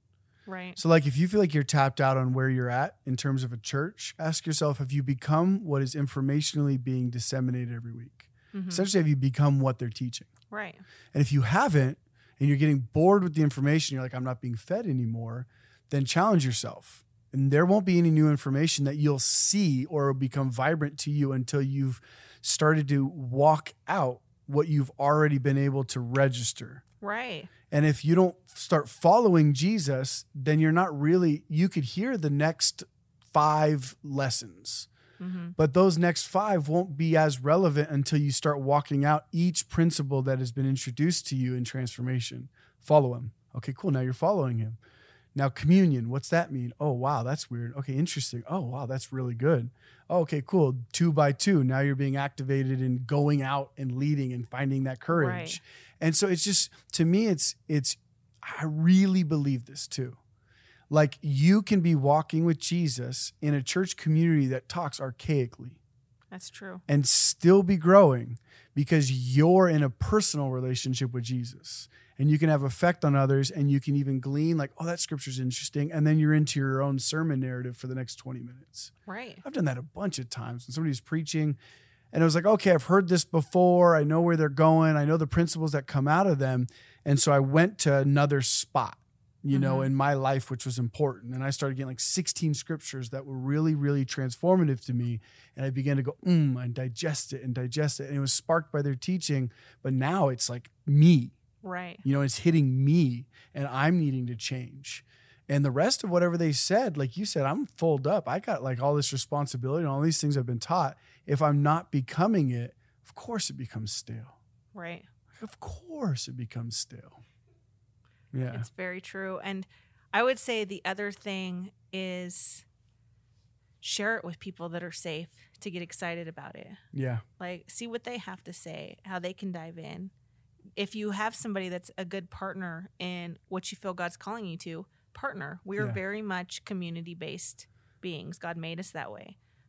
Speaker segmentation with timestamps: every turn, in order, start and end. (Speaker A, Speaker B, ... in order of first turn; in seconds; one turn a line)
Speaker A: 0.5-0.8
Speaker B: 0.8-10.3
Speaker A: 8.5-8.9
Speaker A: 10.5-10.8
Speaker B: 11.1-26.8
Speaker A: 27.0-27.5
Speaker B: 27.7-34.9
Speaker A: 35.2-35.5
Speaker B: 35.6-44.8
Speaker B: 45.3-60.2
Speaker A: 55.1-55.6
Speaker B: 60.9-65.8
Speaker A: 66.3-66.8
Speaker B: 66.9-78.9
Speaker A: 79.1-79.4
Speaker B: 79.4-81.6
Speaker B: 82.1-101.3
Speaker A: 89.5-89.9
Speaker A: 101.6-102.0
Speaker B: 102.0-114.3
Speaker A: 114.7-115.1
Speaker B: 115.4-117.2
Speaker B: 118.3-118.7
Speaker A: 118.5-122.6
Speaker A: 123.8-126.8
Speaker B: 126.9-127.2
Speaker A: 127.4-130.1
Speaker A: 130.8-139.4